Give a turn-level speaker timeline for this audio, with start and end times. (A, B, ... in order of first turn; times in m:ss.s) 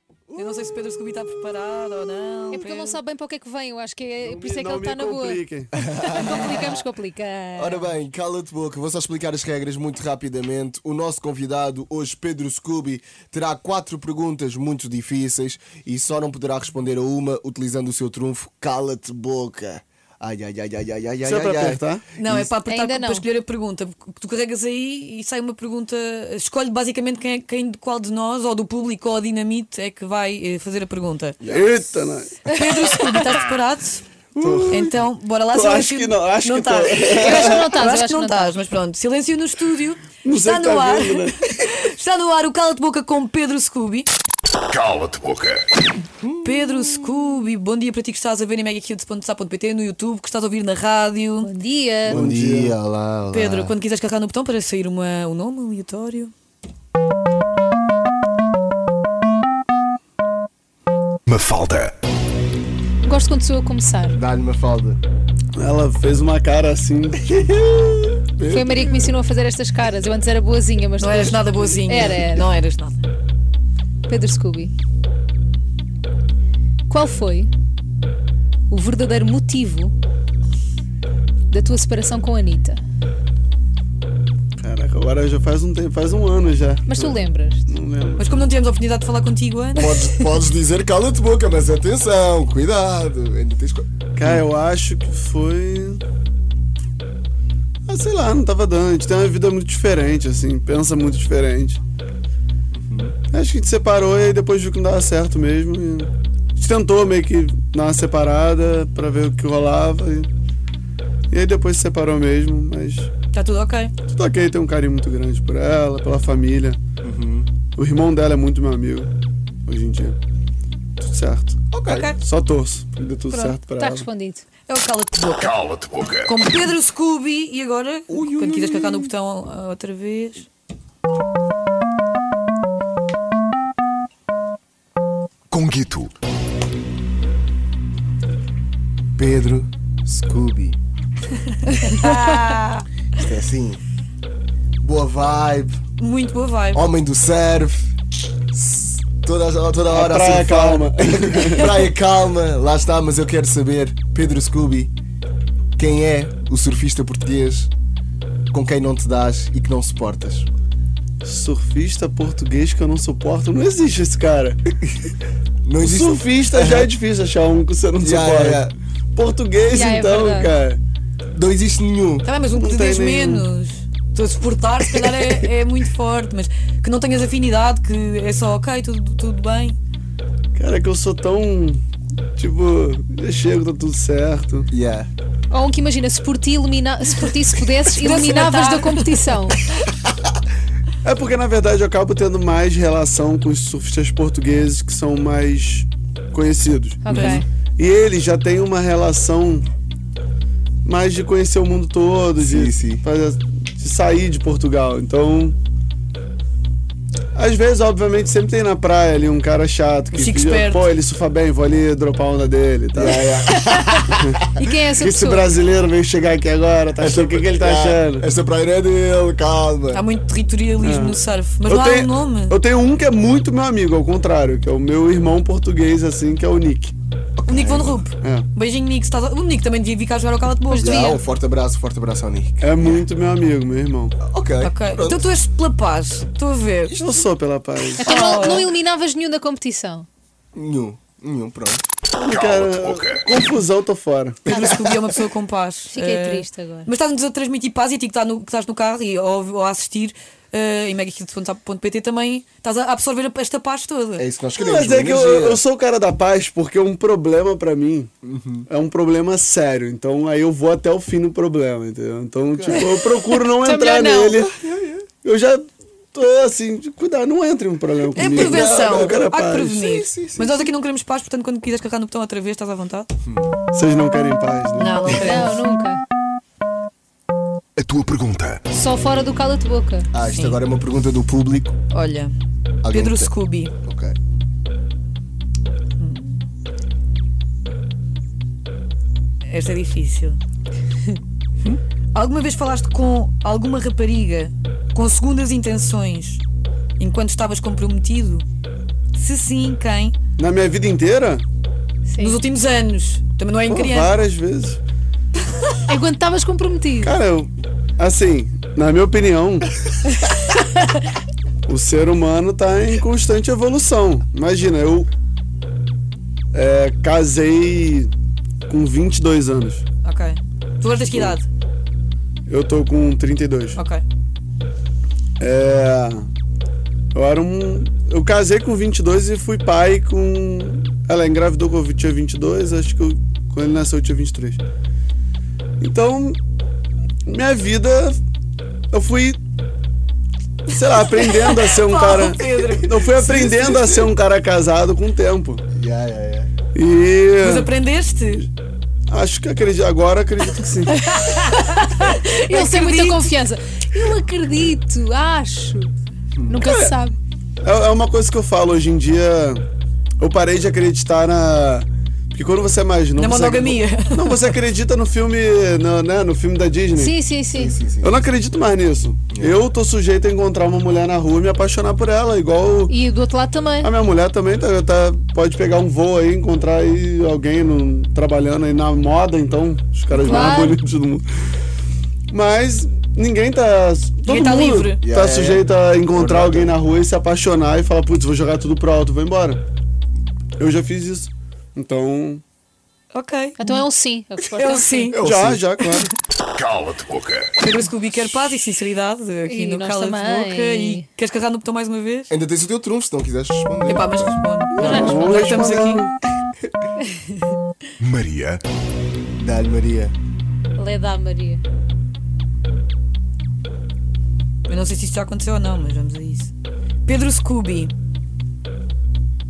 0:00.3-0:00.7 A
0:00.3-0:03.0 B
0:02.5-0:07.9 C
0:04.2-0:05.7 D
0:05.8-0:06.8 A
0:07.6-0:22.5 A
0:21.2-0:22.0 D
0:22.2-0:31.4 B
0:22.6-0:23.2 C
0:31.4-0:32.4 D
0:32.5-0:34.0 B
0:32.9-0:33.2 C
0:34.3-0:34.9 D
0:34.4-0:34.9 A
0:34.7-0:44.1 B
0:35.5-0:37.6 D
0:37.1-0:38.6 C
0:40.2-0:41.4 D
0:44.7-0:45.6 E
0:46.4-0:51.5 B
0:51.4-0:52.2 C
0:52.0-0:52.8 D
0:52.0-0:53.8 A
0:53.3-0:56.3 B
1:01.3-1:01.9 E
1:03.0-1:04.2 C
1:04.1-1:05.0 A
1:05.5-1:07.4 D
1:07.3-1:09.1 A
1:08.4-1:12.5 C
1:11.0-1:13.1 B
1:14.1-1:14.7 C
1:16.9-1:17.5 C
1:18.7-1:19.9 C
1:21.5-1:22.8 C
1:24.6-1:28.4 D
1:26.8-1:27.6 C
1:28.2-1:30.1 B
1:29.8-1:34.4 A
1:34.2-1:36.0 D
1:37.8-1:41.8 D
1:42.7-1:43.2 A
1:43.3-1:50.3 D
1:51.3-1:53.1 D
1:53.3-1:53.9 B
1:54.1-1:56.8 D
1:57.0-1:57.6 A
1:57.7-1:59.1 D
1:59.6-2:00.2 D
2:01.0-2:04.1 D
2:01.7-2:02.2 A
2:01.9-2:02.2 B
2:03.3-2:03.5 B
2:03.6-2:04.4 C
2:04.7-2:10.5 B
2:05.5-2:06.3 E
2:08.1-2:09.1 A
2:15.5-2:16.1 E
2:19.2-2:20.8 A
2:21.6-2:22.8 B
2:23.2-2:23.8 A
2:24.8-2:25.8 A
2:26.0-2:26.8 B
2:26.7-2:27.9 A
2:28.5-2:34.9 A
2:29.9-2:31.8 D
2:35.8-2:37.7 A
2:38.5-2:40.5 A
2:41.2-2:44.6 D
2:45.6-2:46.9 A
2:45.8-2:50.8 D
2:48.0-2:48.7 A
2:49.7-2:50.5 C
2:51.3-2:52.3 A
2:52.2-2:59.8 B
2:52.5-2:53.5 D
2:55.0-2:55.3 A
3:00.5-3:01.8 D
3:02.3-3:04.7 D
3:04.7-3:05.1 A
3:05.5-3:09.6 C
3:07.9-3:09.4 B
3:11.0-3:19.7 D
3:17.0-3:17.4 C
3:17.1-3:17.4 B
3:20.8-3:25.6 D
3:22.4-3:23.0 A
3:27.3-3:33.3 D
3:30.1-3:30.9 B
3:32.9-3:34.5 A
3:34.6-3:35.5 C
3:35.0-3:38.2 D
3:37.0-3:40.0 A
3:39.9-3:42.6 B
3:40.8-3:46.9 D
3:47.4-3:48.1 A
3:47.4-3:51.2 B
3:48.2-3:48.5 D
3:50.7-3:51.2 C
3:50.8-3:53.0 A
3:52.6-3:54.2 D
3:54.2-3:55.3 A
3:54.6-3:57.0 B
3:56.9-3:57.3 A
3:57.0-3:58.1 D
3:58.0-4:00.1 C
3:58.0-3:58.7 B
4:00.5-4:01.8 A
4:02.1-4:04.5 D
4:02.2-4:03.2 E
4:04.5-4:04.9 C
4:04.5-4:14.2 B
4:04.6-4:05.0 A
4:05.9-4:06.9 C
4:14.2-4:15.6 A
4:14.6-4:18.1 D
4:18.2-4:18.7 A
4:18.7-4:24.5 D
4:22.5-4:23.2 A
4:23.3-4:24.4 C
4:24.4-4:25.1 A
4:25.1-4:29.8 D
4:28.2-4:33.1 B
4:28.2-4:30.7 A
4:33.3-4:33.5 A
4:33.7-4:35.1 D
4:34.8-4:35.6 B
4:35.1-4:36.0 C
4:37.8-4:38.6 E
4:38.7-4:40.1 C
4:40.1-4:41.7 A
4:40.2-4:40.6 B
4:41.9-4:42.3 B
4:42.8-4:43.3 A
4:42.9-4:43.7 B
4:43.8-4:44.2 A
4:46.0-4:46.4 B
4:49.4-4:50.4 B
4:52.1-4:56.4 B
4:57.0-4:58.4 B
4:59.1-5:00.1 B
5:00.4-5:01.4 D
5:02.0-5:02.4 C
5:02.2-5:04.2 B
5:03.7-5:04.8 D
5:05.9-5:07.2 C
5:07.0-5:09.7 D
5:11.6-5:15.1 D
5:16.5-5:18.1 D
5:18.7-5:19.8 D
5:20.0-5:21.4 B
5:22.5-5:23.8 D
5:23.7-5:24.0 B
5:25.4-5:26.3 D
5:27.1-5:34.6 D
5:35.8-5:36.4 D
5:37.2-5:38.2 D
5:38.9-5:39.4 D
5:40.7-5:45.6 D
5:40.7-5:43.4 B
5:43.3-5:44.0 A
5:45.8-5:46.5 A
5:46.7-5:47.7 D
5:47.4-5:48.5 B
5:49.1-5:50.9 D
5:50.9-5:53.3 B
5:51.3-5:55.9 C
5:56.4-5:56.6 A
5:56.4-5:57.2 C
5:56.6-5:57.0 D
5:57.6-5:59.6 D
6:00.2-6:07.1 D
6:03.2-6:04.5 B
6:06.9-6:07.8 C
6:07.5-6:08.2 A
6:07.8-6:12.9 D
6:09.3-6:09.6 A
6:12.9-6:13.9 C
6:13.8-6:21.2 D
6:20.1-6:20.8 C
6:20.3-6:20.6 B
6:22.3-6:29.6 D
6:24.2-6:25.0 B
6:25.0-6:26.8 A
6:30.6-6:32.4 D
6:33.1-6:33.8 B
6:33.6-6:35.2 C
6:34.5-6:35.2 B
6:35.1-6:35.7 A
6:35.2-6:36.1 D
6:36.6-6:37.5 E
6:37.6-6:42.3 B
6:39.4-6:41.1 C
6:42.3-6:44.4 A
6:43.9-6:46.1 B
6:44.7-6:45.7 C
6:44.8-6:46.1 D
6:48.0-6:48.6 E
6:49.4-6:50.1 A
6:50.7-6:51.6 C
6:54.7-6:56.5 B
6:57.0-6:57.9 B